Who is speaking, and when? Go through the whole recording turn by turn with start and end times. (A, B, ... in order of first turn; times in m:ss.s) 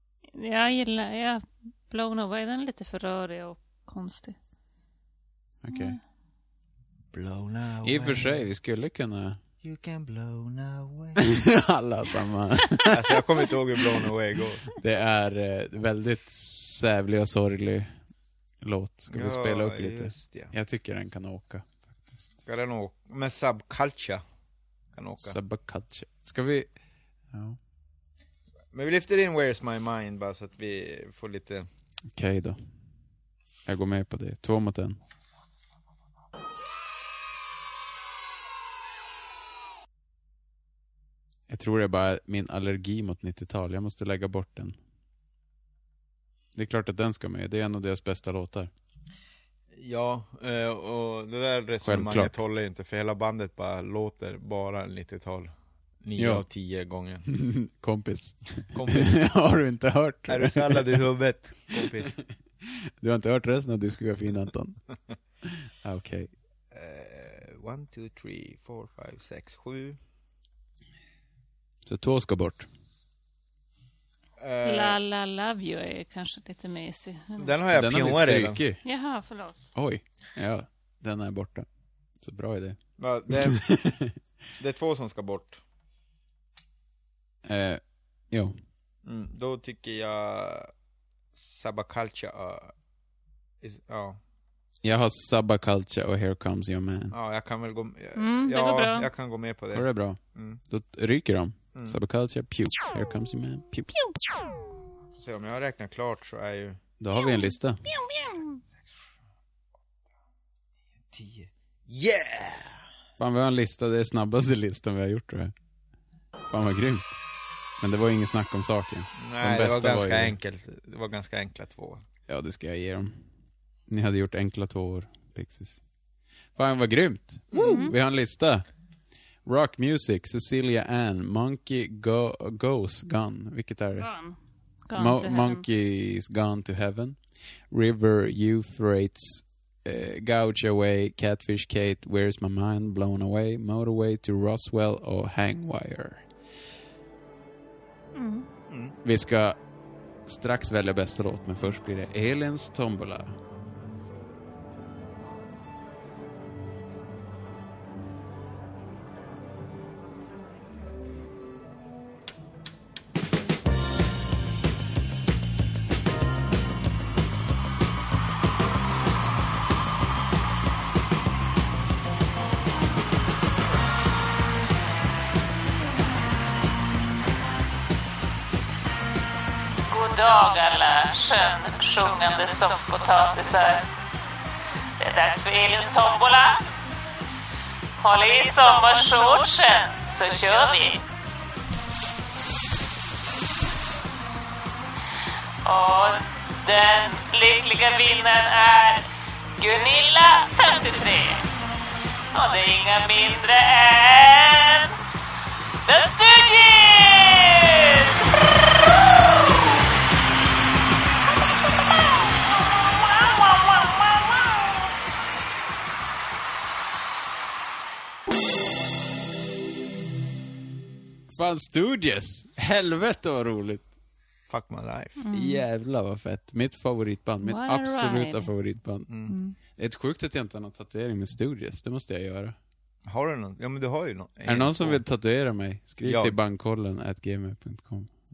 0:00.3-0:04.4 A
0:05.6-0:06.0 B
0:05.7-0:06.0 A
0:07.1-0:08.4 C
0:07.8-0:09.4 B
0:09.6-0:11.3 C
0:11.2-0:13.2 B
0:12.9-0:14.6 C
0:14.8-0:17.9 B
0:18.6-0:22.3 B
0:19.1-0:20.5 C
0:22.4-0:24.2 C
0:24.9-0:25.4 C
0:25.2-0:26.7 B
0:27.3-0:27.6 B
0:28.7-0:31.7 C
0:32.1-0:32.6 B
0:33.6-0:35.0 B
0:41.5-0:44.8 B
0:46.5-0:48.7 B
0:49.7-0:57.2 C
0:51.8-0:52.3 B
0:56.2-0:56.4 B
0:57.3-1:01.0 B
0:58.7-0:59.2 C
1:00.3-1:02.2 C
1:03.0-1:04.8 B
1:05.4-1:06.3 B
1:06.7-1:10.0 C
1:11.8-1:12.7 B
1:14.4-1:15.0 C
1:14.6-1:17.5 A
1:17.4-1:18.6 C
1:17.7-1:18.8 B
1:18.8-1:19.6 A
1:19.7-1:21.6 B
1:22.2-1:22.8 B
1:23.0-1:23.6 C
1:23.3-1:24.1 B
1:24.6-1:25.6 C
1:27.4-1:28.5 B
1:29.0-1:30.7 C
1:31.3-1:32.7 C
1:33.6-1:34.2 C
1:34.8-1:37.1 B
1:37.1-1:40.6 C
1:38.2-1:39.1 A
1:39.7-1:40.2 B
1:40.7-1:44.0 B
1:45.1-1:46.8 C
1:47.0-1:47.8 B
1:47.1-1:48.6 A
1:51.1-1:52.8 C
1:53.2-1:55.5 B
1:56.5-1:57.1 B
1:57.8-2:00.3 B
1:59.2-2:02.0 C
2:02.3-2:03.2 B
2:03.9-2:05.8 B
2:06.5-2:08.6 B
2:07.5-2:07.8 C
2:07.6-2:07.9 A
2:09.4-2:14.1 B
2:14.0-2:15.6 A
2:14.9-2:17.2 B
2:17.7-2:26.2 B
2:28.2-2:28.5 A
2:28.7-2:28.9 C
2:29.0-2:29.6 B
2:30.2-2:33.3 B
2:59.9-3:03.8 A
3:05.0-3:06.5 A
3:08.0-3:11.0 A
3:15.6-3:16.1 A
3:16.6-3:19.0 A
3:19.6-3:21.4 A
3:22.3-3:24.9 A
3:25.9-3:27.9 A
3:33.3-3:33.9 A
3:41.3-3:43.8 B
3:44.5-3:45.2 C
3:45.2-3:45.6 A
3:45.3-3:52.6 B
3:47.4-3:48.5 A
3:49.1-3:49.3 C
3:49.3-3:49.6 A
3:53.1-3:55.0 C
3:54.4-3:58.1 B
3:56.0-3:56.4 C